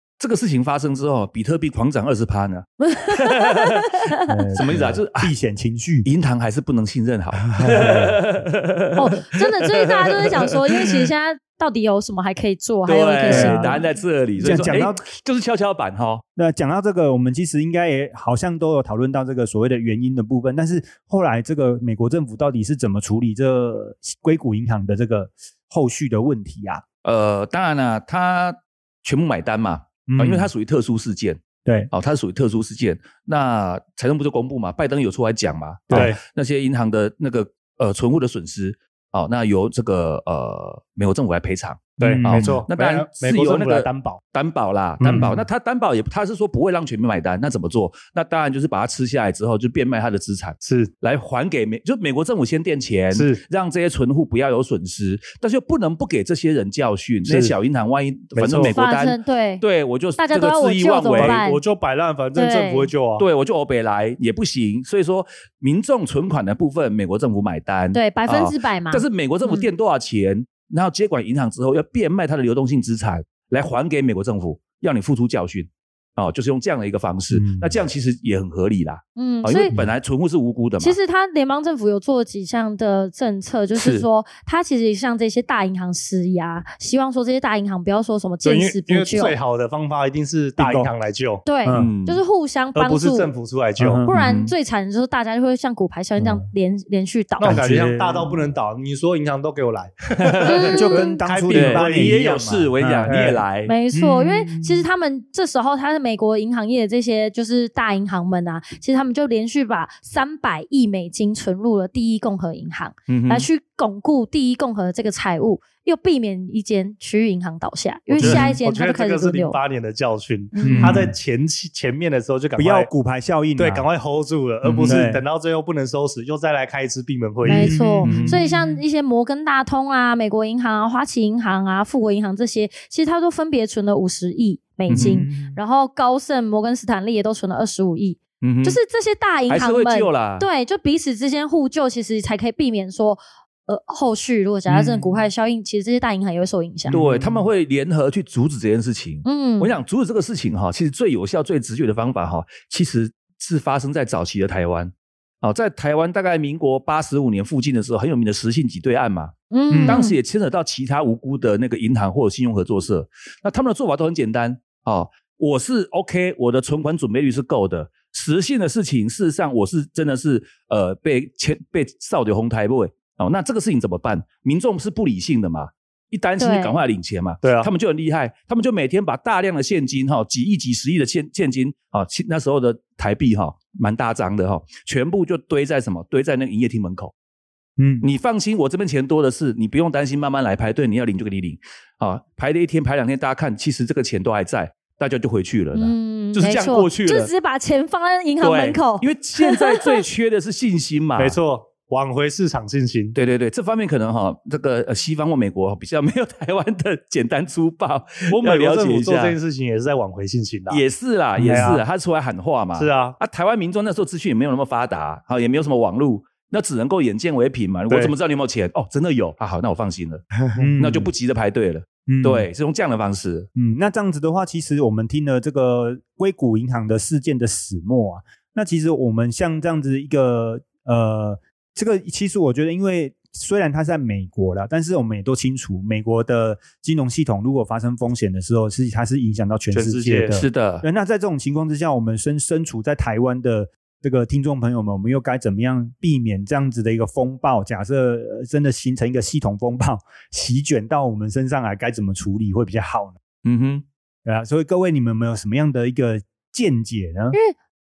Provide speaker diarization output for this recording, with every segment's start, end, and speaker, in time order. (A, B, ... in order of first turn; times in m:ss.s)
0:00.2-0:03.9 A
0:02.8-0:04.3 B
0:04.3-0:06.1 C
0:04.6-0:05.3 A
0:06.0-0:11.1 A
0:07.6-0:08.2 C
0:08.9-0:13.8 B
0:12.9-0:16.2 A
0:13.2-0:13.8 C
0:14.4-0:15.0 C
0:16.4-0:26.8 C
0:27.0-1:01.4 A
0:30.1-0:30.5 C
0:31.6-0:31.9 C
0:35.9-0:36.2 D
0:42.0-0:44.2 D
0:42.0-0:42.7 C
0:45.0-0:45.4 D
0:45.0-0:45.4 C
0:50.6-0:50.9 D
0:53.1-0:53.4 D
0:57.2-0:57.6 D
0:58.3-0:58.8 D
0:58.6-0:59.6 B
1:00.2-1:01.6 B
1:01.2-1:03.2 D
1:02.3-1:02.9 B
1:03.2-1:21.0 A
1:07.9-1:09.7 B
1:17.3-1:17.8 C
1:19.2-1:19.7 B
1:20.8-1:29.4 B
1:23.7-1:24.0 A
1:28.4-1:31.4 D
1:30.6-1:30.9 C
1:31.4-1:33.3 B
1:31.6-1:31.9 C
1:31.7-1:32.2 A
1:32.7-1:34.0 D
1:33.8-1:34.2 C
1:34.0-1:37.6 B
1:34.1-1:34.5 A
1:36.2-1:36.4 C
1:37.4-1:42.5 D
1:37.4-1:38.4 C
1:40.2-1:40.7 A
1:40.4-1:41.1 B
1:40.7-1:43.4 C
1:41.5-1:43.7 A
1:43.0-1:43.4 D
1:43.6-1:59.6 B
1:43.9-1:44.8 C
1:53.1-1:53.5 A
1:58.1-1:58.5 C
1:58.2-2:02.9 D
2:00.5-2:01.0 B
2:00.6-2:01.1 C
2:02.6-2:03.8 C
2:03.6-2:08.2 D
2:04.6-2:05.0 A
2:04.8-2:05.2 C
2:07.4-2:27.0 B
2:07.4-2:08.8 C
2:08.0-2:08.4 A
2:14.9-2:15.2 A
2:14.9-2:15.6 C
2:18.4-2:18.8 A
2:19.5-2:20.5 A
2:26.9-2:39.3 A
2:26.9-2:27.4 C
2:29.2-2:29.7 B
2:39.5-2:40.1 B
2:39.7-2:40.0 C
2:39.8-3:07.1 A
2:56.4-2:56.8 B
2:57.4-2:57.7 D
3:07.8-3:08.1 C
3:08.0-3:17.3 A
3:15.7-3:20.0 B
3:18.4-3:21.4 A
3:21.2-3:23.2 D
3:23.1-3:29.4 A
3:28.3-3:30.8 D
3:30.7-3:40.2 A
3:31.4-3:31.8 D
3:32.8-3:33.2 D
3:40.6-3:41.1 C
3:40.8-3:43.5 A
3:42.1-3:42.5 C
3:43.5-4:13.2 C
3:59.7-4:00.4 D
4:00.3-4:00.8 A
4:13.4-4:13.8 A
4:14.2-4:17.4 C